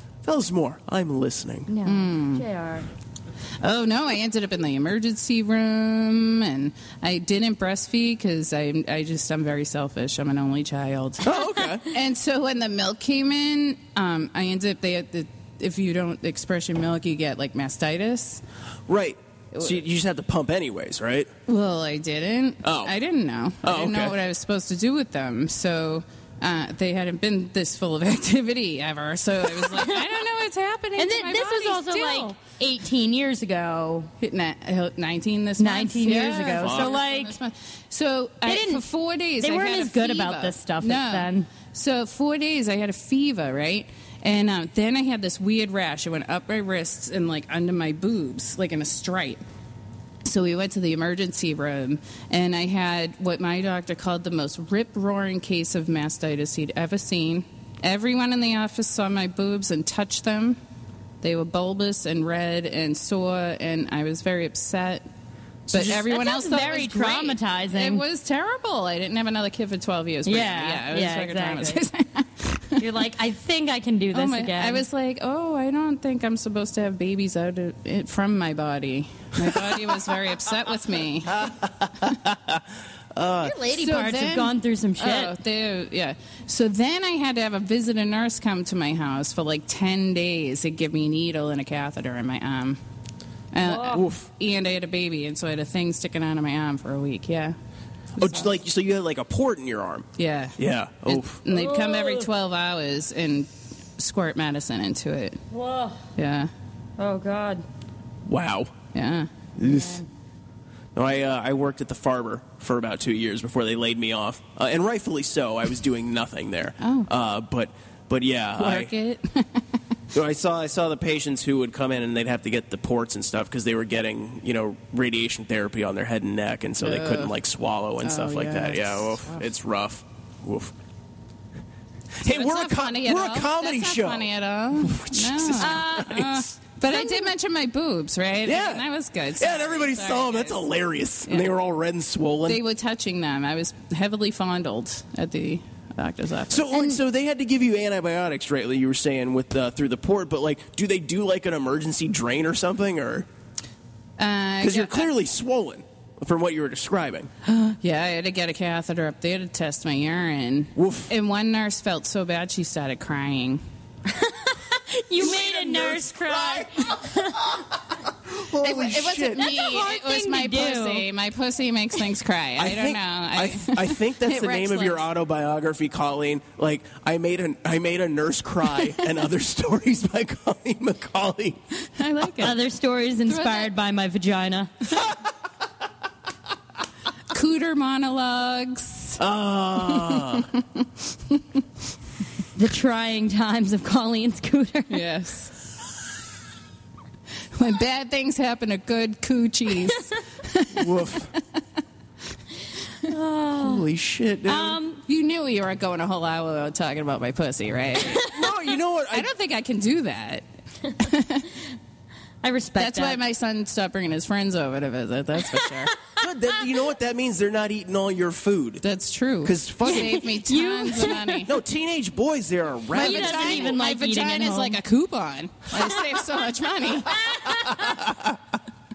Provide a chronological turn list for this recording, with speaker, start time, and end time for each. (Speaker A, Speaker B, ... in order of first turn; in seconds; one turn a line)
Speaker A: 0.2-1.7
Speaker B: 1.7-2.9
Speaker C: 1.9-2.5
Speaker C: 3.6-11.3
Speaker A: 11.2-11.9
Speaker C: 11.9-18.4
Speaker A: 18.9-21.3
Speaker C: 21.5-32.3
Speaker A: 22.6-22.9
Speaker A: 23.6-24.2
Speaker B: 31.0-34.1
Speaker C: 34.2-49.4
Speaker B: 35.6-37.3
Speaker A: 36.6-37.0
Speaker B: 38.5-38.8
Speaker B: 39.4-41.5
Speaker C: 50.2-60.6
Speaker C: 61.2-65.1
Speaker A: 65.7-66.0
Speaker C: 65.7-72.8
Speaker B: 66.0-68.0
Speaker B: 70.2-71.8
Speaker B: 72.8-74.8
Speaker C: 74.1-81.5
Speaker A: 79.4-79.8
Speaker A: 81.3-83.6
Speaker B: 83.4-85.3
Speaker C: 83.7-92.8
Speaker C: 93.5-97.6
Speaker B: 93.6-94.0
Speaker A: 93.8-94.3
Speaker C: 98.2-98.5
Speaker A: 98.2-100.1
Speaker C: 100.2-105.4
Speaker A: 100.6-101.4
Speaker B: 101.5-102.3
Speaker B: 105.5-106.0
Speaker C: 106.2-106.5
Speaker B: 107.0-107.7
Speaker A: 108.3-108.8
Speaker C: 108.9-109.3
Speaker A: 109.6-110.0
Speaker B: 109.6-110.0
Speaker A: 111.0-118.9
Speaker C: 116.8-117.1
Speaker C: 118.6-119.7
Speaker A: 120.1-130.7
Speaker C: 126.8-127.3
Speaker C: 128.0-129.4
Speaker A: 132.2-136.6
Speaker C: 132.2-140.6
Speaker B: 135.6-136.1
Speaker A: 138.4-142.6
Speaker C: 142.5-146.9
Speaker A: 146.5-153.3
Speaker C: 154.2-155.1
Speaker A: 154.6-157.3
Speaker C: 157.4-163.6
Speaker A: 160.8-161.1
Speaker B: 164.1-167.5
Speaker A: 165.2-167.6
Speaker C: 165.4-165.7
Speaker A: 168.2-169.5
Speaker C: 168.6-175.0
Speaker B: 169.3-171.1
Speaker A: 172.6-181.6
Speaker C: 182.0-182.6
Speaker B: 182.4-184.7
Speaker C: 183.3-183.7
Speaker C: 187.3-189.2
Speaker A: 189.2-190.5
Speaker C: 189.8-191.4
Speaker B: 192.6-195.1
Speaker C: 194.9-195.5
Speaker C: 197.6-201.3
Speaker A: 200.7-201.3
Speaker B: 203.0-203.8
Speaker A: 203.6-204.8
Speaker B: 204.5-205.0
Speaker C: 205.1-208.4
Speaker A: 208.2-209.3
Speaker C: 209.1-210.4
Speaker C: 211.0-211.5
Speaker B: 212.4-213.2
Speaker C: 212.8-215.9
Speaker A: 216.2-218.8
Speaker C: 218.8-221.5
Speaker A: 219.4-220.2
Speaker B: 219.9-221.4
Speaker A: 221.4-223.8
Speaker C: 222.9-227.2
Speaker B: 223.0-224.8
Speaker B: 227.3-227.8
Speaker A: 227.7-228.4